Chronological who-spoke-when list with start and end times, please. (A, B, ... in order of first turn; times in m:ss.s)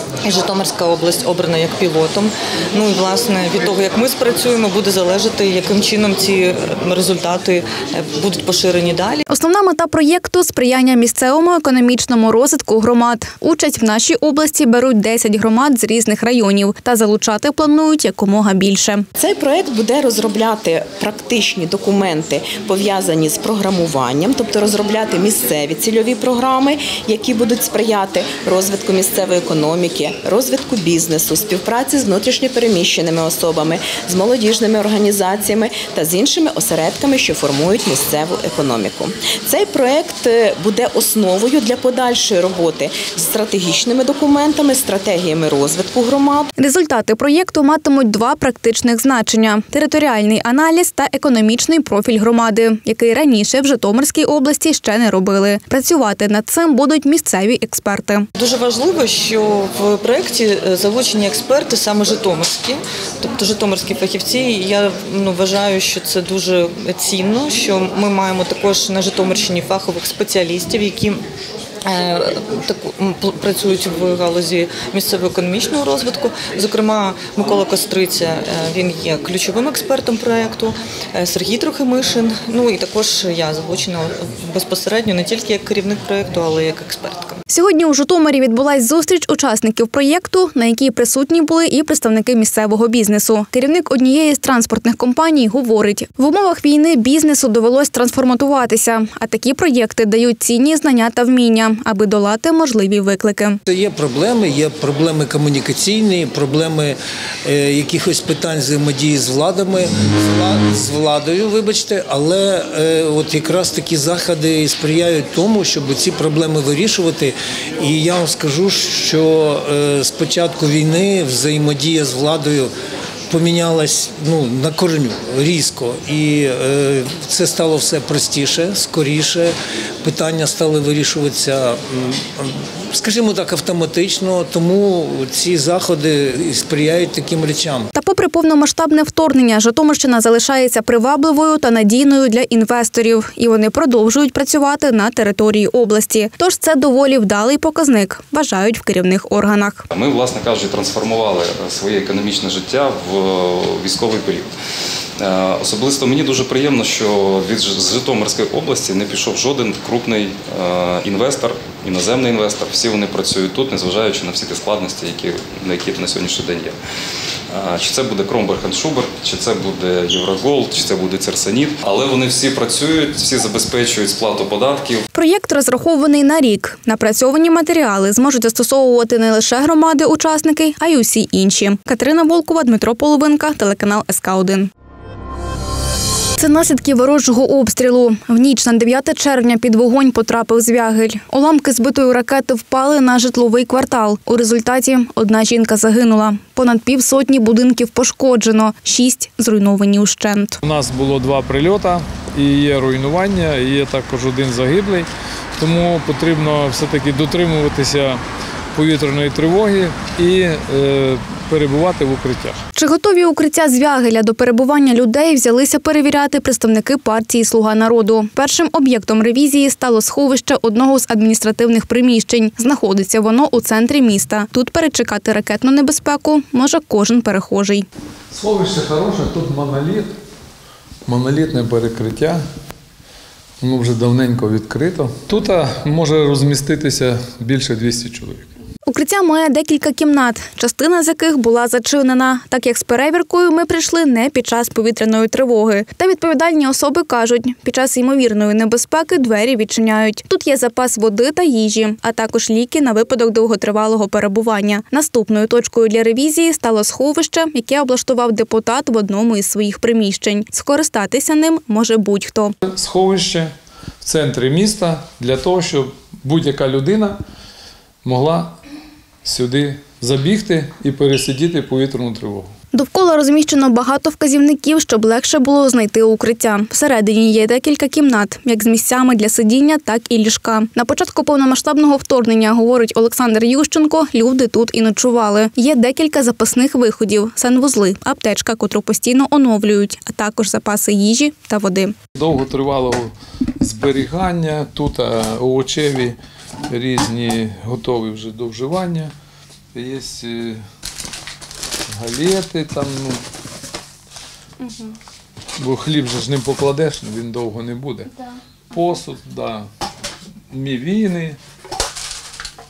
0:00.2-0:09.2 A
0:09.3-0:19.1 B
0:19.2-0:46.5 C
0:46.6-0:58.3 B
0:58.4-1:11.2 A
1:11.8-1:27.4 A
1:27.5-1:43.6 B
1:43.7-2:02.7 D
2:03.3-2:17.9 D
2:17.9-2:29.9 B
2:29.9-2:34.5 E
2:35.2-2:46.8 E
2:47.5-2:55.0 E
2:55.1-3:04.7 B
3:06.4-3:20.6 B
3:20.6-3:25.1 F
3:25.6-3:28.2 F
3:28.7-3:32.6 F
3:32.7-3:47.8 B
3:48.3-3:50.1 F
3:51.0-3:52.4 F
3:53.6-3:58.5 F
3:58.8-4:22.5 B
4:22.6-4:27.2 F
4:28.0-4:28.5 F
4:29.2-4:32.5 F
4:32.7-4:51.9 B
4:52.2-4:56.2 F
4:56.7-4:59.1 F
4:59.7-5:00.6 F
5:01.9-5:03.2 F
5:04.6-5:04.9 B
5:05.6-5:08.1 F
5:08.7-5:09.7 F
5:10.5-5:11.4 F